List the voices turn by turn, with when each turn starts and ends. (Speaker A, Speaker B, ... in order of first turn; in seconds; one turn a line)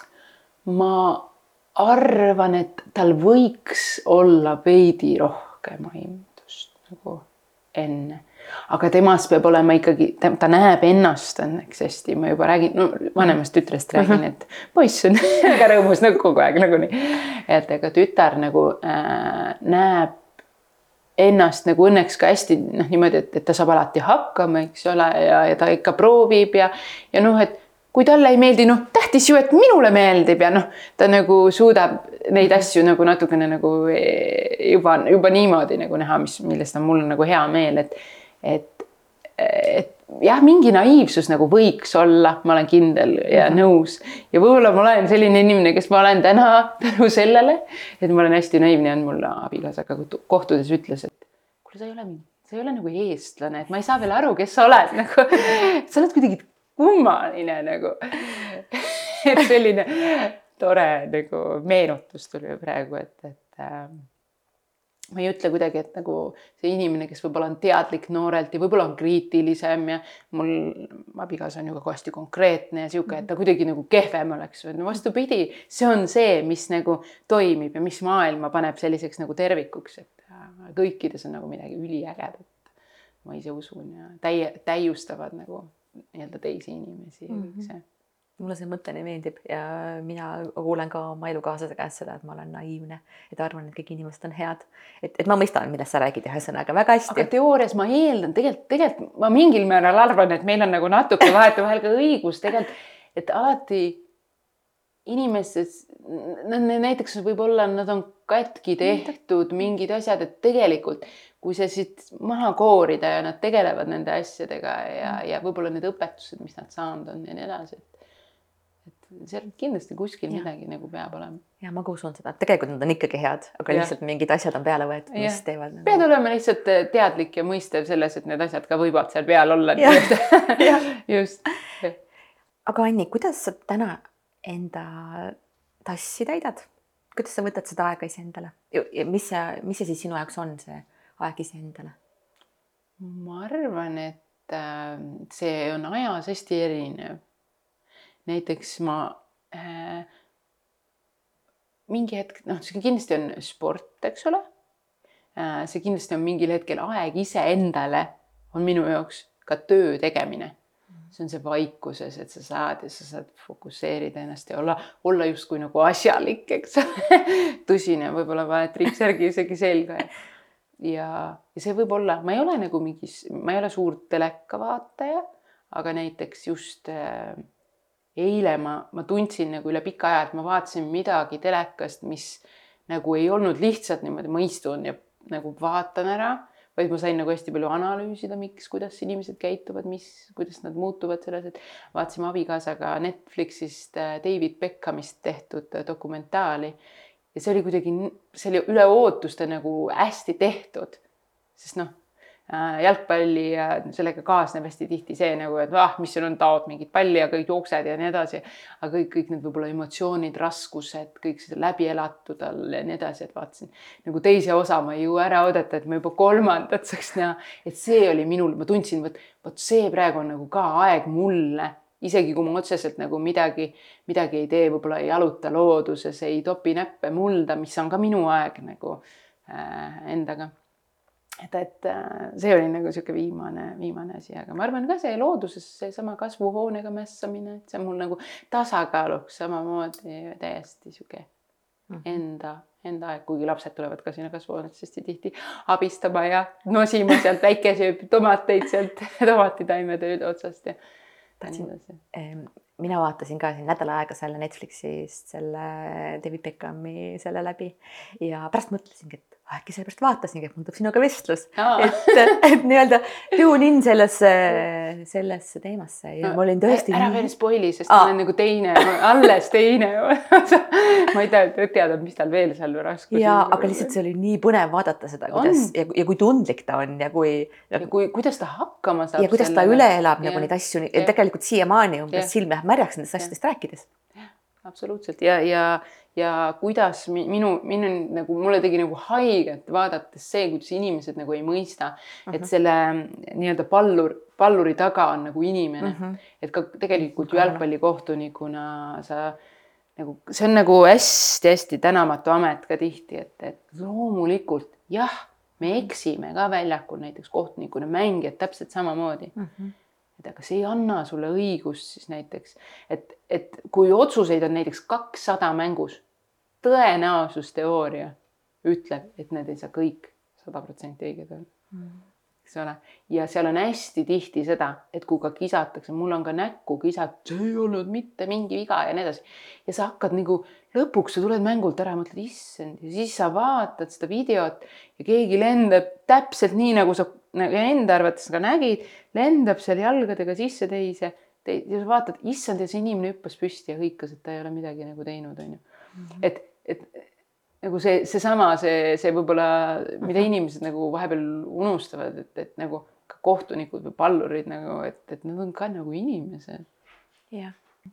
Speaker A: 0.7-20.2
Speaker A: 21.2-64.0
Speaker B: 43.4-43.6
Speaker A: 65.1-82.6
Speaker A: 83.2-87.8
Speaker B: 87.3-87.7
Speaker B: 88.4-97.3
Speaker A: 97.1-104.0
Speaker A: 105.1-117.9
Speaker A: 119.0-121.4
Speaker B: 121.6-126.0
Speaker A: 125.1-132.0
Speaker B: 129.8-130.8
Speaker B: 132.7-141.9
Speaker A: 143.0-147.2
Speaker A: 148.2-150.1
Speaker A: 151.9-154.4
Speaker A: 155.3-160.5
Speaker A: 161.1-170.1
Speaker A: 170.8-177.4
Speaker A: 178.2-196.8
Speaker A: 197.3-201.0
Speaker A: 201.6-201.9
Speaker A: 202.5-230.5
Speaker A: 231.4-241.3
Speaker A: 242.0-250.8
Speaker B: 251.4-267.3
Speaker A: 251.4-252.0
Speaker A: 261.6-262.4
Speaker A: 266.2-273.9
Speaker B: 267.9-268.1
Speaker B: 273.1-277.9
Speaker A: 275.3-275.7
Speaker A: 277.8-281.1
Speaker B: 279.2-283.9
Speaker A: 284.6-299.4
Speaker B: 295.8-296.2
Speaker B: 297.0-297.6
Speaker A: 300.0-309.4
Speaker B: 309.4-309.7
Speaker A: 310.2-316.0
Speaker A: 316.6-321.5
Speaker B: 321.7-322.0
Speaker A: 322.4-345.6
Speaker A: 346.2-347.1
Speaker A: 347.6-356.7